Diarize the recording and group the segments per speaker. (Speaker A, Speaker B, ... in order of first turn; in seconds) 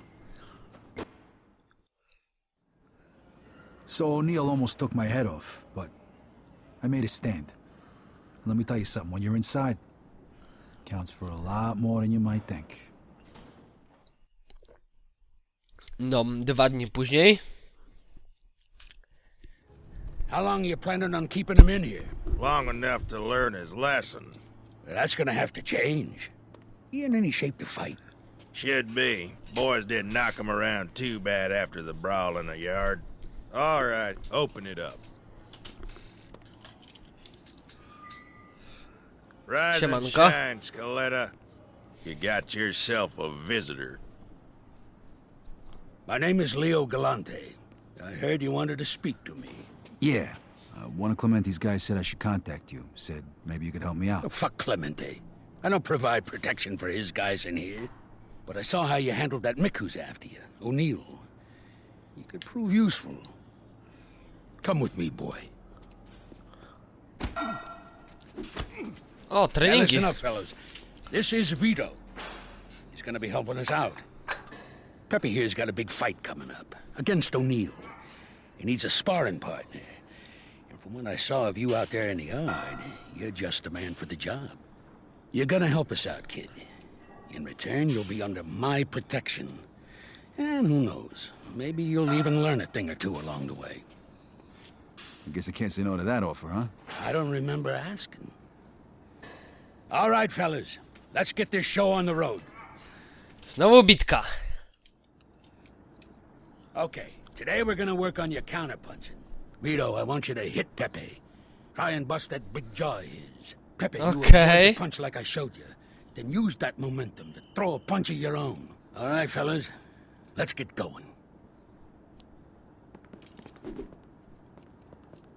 Speaker A: 3.9-5.9, 6.8-7.6, 8.4-9.8, 10.8-12.9, 50.0-54.3, 95.2-96.7
Speaker B: 16.0-17.4, 39.7-40.4, 69.3-70.2, 103.5-104.3, 114.0-114.8
Speaker C: 20.3-22.2, 24.8-26.3, 26.9-28.0, 46.1-49.7, 54.2-57.9, 58.5-61.2, 62.2-63.3, 64.6-65.5, 69.6-70.6, 71.1-72.0, 72.9-74.0, 75.1-78.0, 78.6-80.0, 80.7-84.6, 85.3-86.7, 87.3-89.7, 90.4-93.8, 97.0-98.3, 99.9-102.5, 106.7-111.2, 111.7-119.7, 120.4-121.1
Speaker D: 22.4-24.4, 28.5-35.0, 39.5-41.3, 42.0-44.0